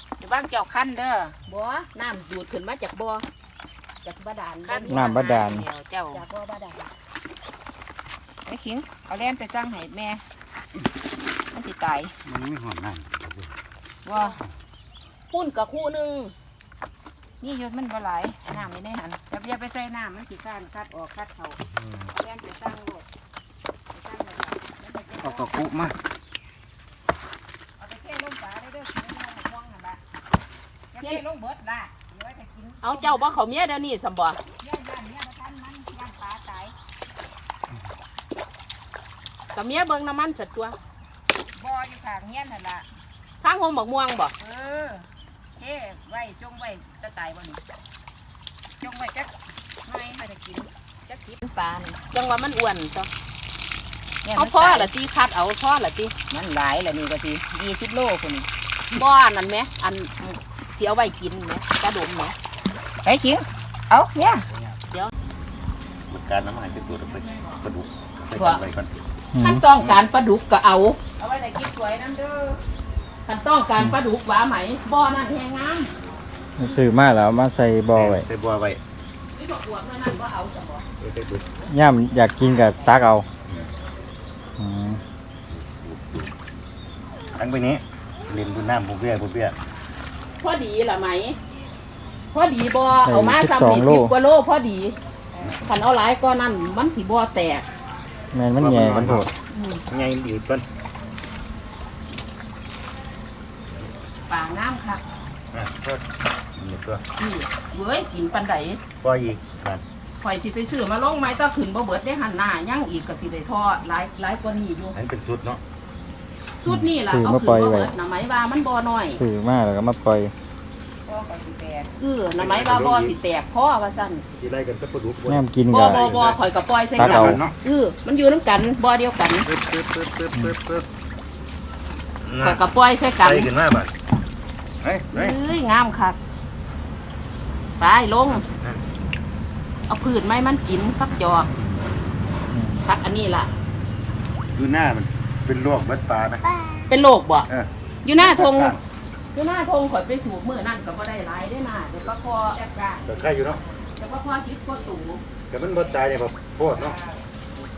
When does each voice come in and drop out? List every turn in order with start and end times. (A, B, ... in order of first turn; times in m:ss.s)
0:00.2-0:01.3 A
0:01.5-0:03.2 B
0:04.0-0:05.3 B
0:04.6-0:06.2 A
0:04.9-0:05.7 C
0:06.1-0:06.9 B
0:08.4-0:10.2 A
0:11.5-0:12.1 A
0:12.2-0:13.6 D
0:14.0-0:14.4 A
0:14.2-0:14.5 D
0:15.3-0:16.3 B
0:17.4-0:21.6 A
0:21.6-0:22.1 D
0:22.1-0:23.0 A
0:23.9-0:25.5 A
0:25.2-0:26.0 D
0:27.8-0:30.0 A
0:30.9-0:33.4 A
0:32.8-0:34.4 B
0:34.5-0:36.7 A
0:39.5-0:40.8 B
0:41.5-0:42.9 A
0:43.4-0:44.3 B
0:44.4-0:47.6 A
0:48.8-0:49.3 A
0:49.8-0:52.0 A
0:52.1-0:53.1 B
0:54.2-0:54.9 A
0:54.3-0:56.1 B
0:56.3-0:58.5 A
0:58.9-1:02.3 B
1:03.0-1:04.5 A
1:04.5-1:04.8 D
1:06.1-1:09.0 D
1:07.0-1:07.6 A
1:08.4-1:08.6 B
1:09.3-1:09.6 C
1:09.4-1:11.0 B
1:09.8-1:10.0 D
1:11.2-1:12.6 A
1:13.3-1:15.9 B
1:16.6-1:18.3 C
1:17.9-1:18.8 D
1:19.3-1:20.8 B
1:21.0-1:21.5 D
1:21.7-1:23.3 C
1:22.5-1:22.9 B
1:24.6-1:25.0 C
1:25.5-1:26.5 D
1:27.3-1:29.6 D
1:30.4-1:31.4 B
1:32.3-1:35.0 B
1:33.0-1:34.1 C
1:35.4-1:35.6 D
1:35.6-1:37.6 B
1:38.3-1:39.3 C
1:38.6-1:39.3 D
1:39.5-1:39.8 B
1:39.9-1:40.6 D
1:44.3-1:45.0 B
1:45.5-1:47.0 D
1:47.2-1:48.8 B
1:49.0-1:49.8 D
1:50.2-1:54.9 B
1:54.9-1:55.6 D
1:56.6-1:59.2 B
1:56.7-1:57.9 C
1:59.2-2:00.3 C
2:01.0-2:01.9 A
2:02.0-2:04.2 B
2:02.4-2:03.1 D
2:04.3-2:06.4 D
2:05.3-2:06.0 C
2:05.7-2:09.5 B
2:07.0-2:07.5 D
2:07.0-2:07.4 C
2:09.4-2:10.9 D
2:12.2-2:12.7 D
2:12.4-2:13.5 B
2:13.2-2:13.9 D
2:14.8-2:15.4 D
2:15.1-2:16.2 B
2:17.8-2:18.4 B
2:18.4-2:18.8 D
2:19.9-2:21.5 B
2:22.5-2:22.8 C
2:22.8-2:23.5 B
2:24.5-2:26.4 D
2:26.9-2:27.5 B
2:27.5-2:28.8 D
2:28.0-2:28.8 B
2:29.3-2:32.6 B
2:32.2-2:33.9 A
2:33.0-2:33.6 D
2:34.0-2:35.2 B
2:35.5-2:37.0 D
2:36.7-2:37.2 A